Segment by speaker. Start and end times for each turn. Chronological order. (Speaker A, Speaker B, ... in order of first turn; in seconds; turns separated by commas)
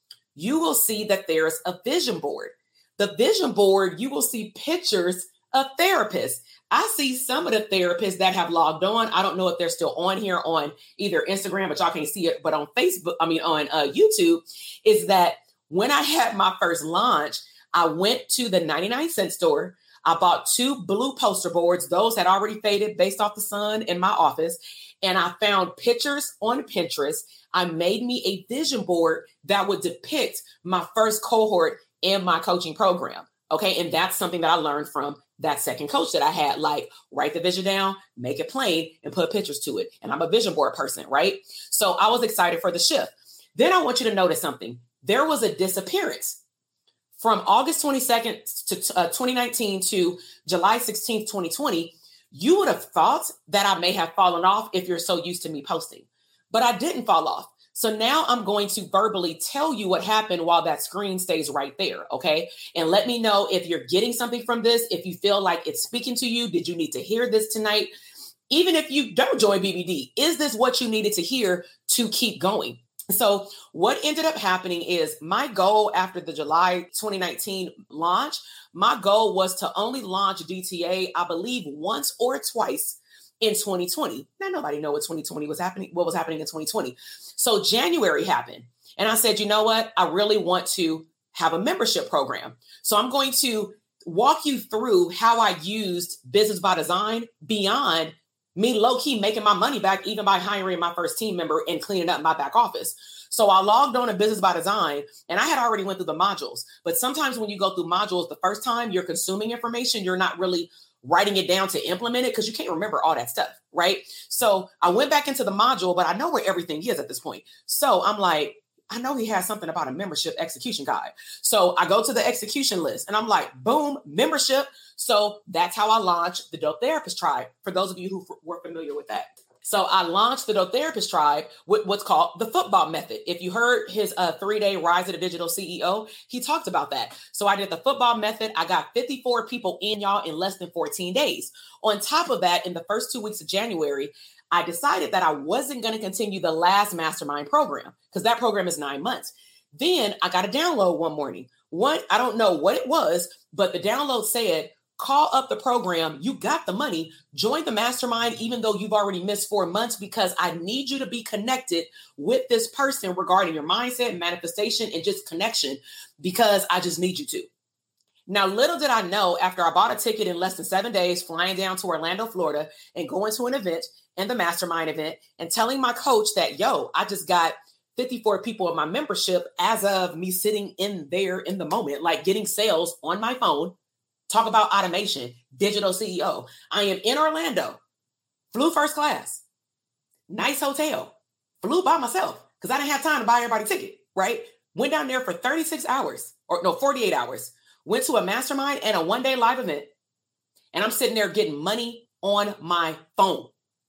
Speaker A: 0.3-46.4, Speaker A: 47.1-67.9, Speaker A: 68.5-167.5, Speaker A: 168.3-183.7, Speaker A: 184.3-187.8, Speaker A: 188.5-189.4, Speaker A: 190.3-199.9, Speaker A: 200.7-203.5